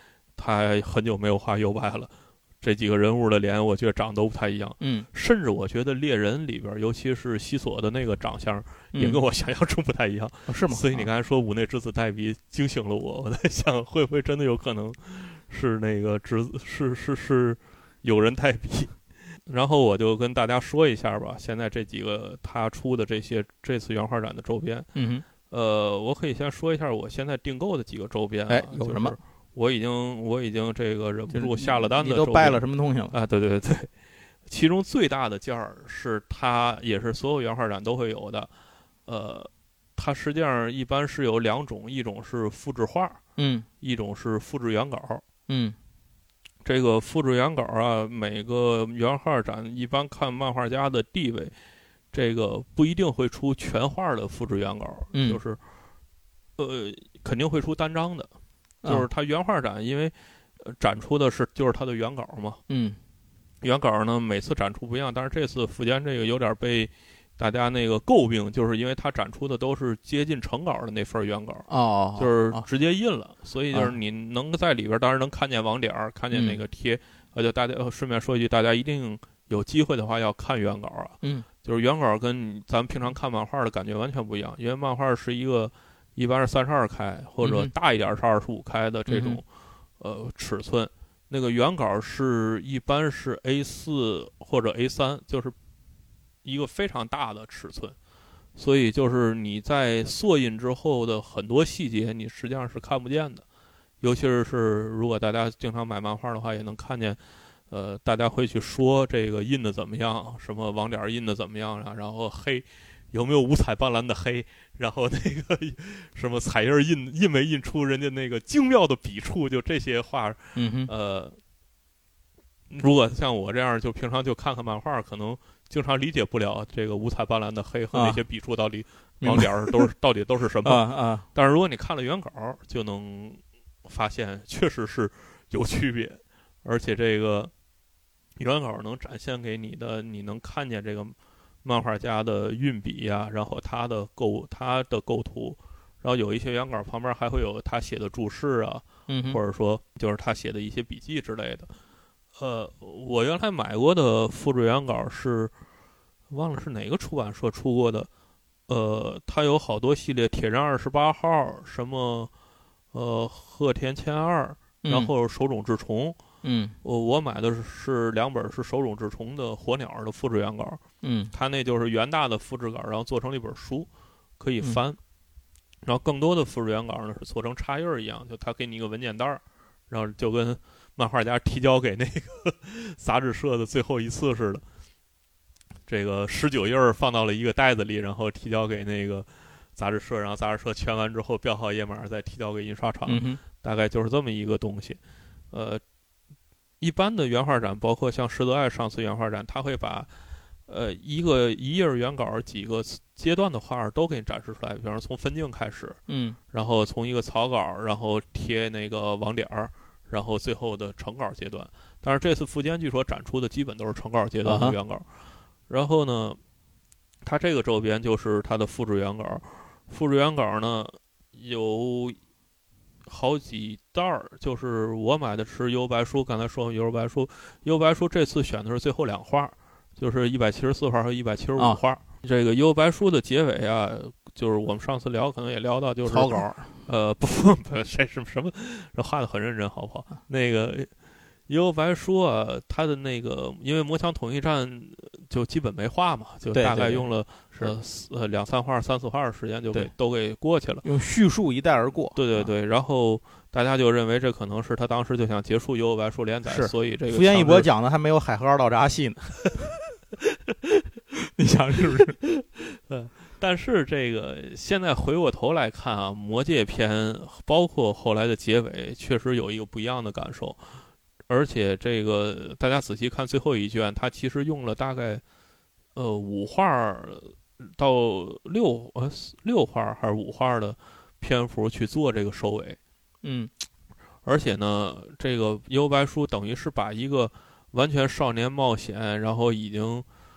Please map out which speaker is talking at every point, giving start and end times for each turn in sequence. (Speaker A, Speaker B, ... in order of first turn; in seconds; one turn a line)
Speaker A: 0.4-19.0
Speaker B: 4.8-5.1
Speaker B: 8.9-9.2
Speaker B: 10.5-11.1
Speaker A: 19.5-24.9
Speaker B: 24.9-25.3
Speaker A: 25.4-33.9
Speaker B: 28.5-29.2
Speaker B: 31.3-33.1
Speaker A: 34.5-38.5
Speaker A: 39.1-43.2
Speaker B: 43.4-43.7
Speaker A: 43.8-45.2
Speaker B: 45.5-45.8
Speaker A: 46.6-51.5
Speaker A: 52.1-55.6
Speaker B: 55.1-55.4
Speaker A: 56.6-58.3
Speaker A: 58.9-62.6
Speaker B: 62.7-63.0
Speaker A: 63.6-89.5
Speaker B: 71.7-72.6
Speaker B: 76.3-76.6
Speaker B: 87.4-87.7
Speaker B: 89.1-89.4
Speaker A: 90.0-95.5
Speaker A: 96.4-98.0
Speaker A: 98.6-103.5
Speaker A: 104.0-107.2
Speaker A: 107.7-121.4
Speaker B: 120.5-120.9
Speaker A: 122.7-137.5
Speaker B: 127.9-128.2
Speaker B: 129.2-129.9
Speaker B: 130.6-131.2
Speaker A: 138.4-151.7
Speaker B: 149.1-149.4
Speaker A: 152.4-155.5
Speaker A: 156.3-158.1
Speaker A: 158.7-162.3
Speaker A: 162.9-166.2
Speaker B: 164.8-165.1
Speaker B: 166.4-166.8
Speaker A: 166.8-170.8
Speaker B: 171.0-171.3
Speaker A: 171.3-173.9
Speaker A: 174.4-175.0
Speaker A: 175.8-184.6
Speaker A: 185.9-195.0
Speaker B: 193.1-193.4
Speaker A: 195.5-195.8
Speaker A: 196.8-200.1
Speaker A: 200.7-206.0
Speaker B: 206.1-206.4
Speaker A: 206.5-215.1
Speaker B: 214.4-214.8
Speaker A: 215.7-216.4
Speaker A: 217.2-222.2
Speaker A: 223.1-240.9
Speaker B: 236.1-236.7
Speaker A: 241.5-250.8
Speaker B: 246.5-247.7
Speaker B: 250.8-252.5
Speaker A: 252.2-257.7
Speaker B: 256.5-259.7
Speaker B: 261.2-262.2
Speaker A: 262.2-270.6
Speaker A: 271.3-275.2
Speaker A: 275.9-282.8
Speaker B: 283.2-283.5
Speaker A: 284.2-290.1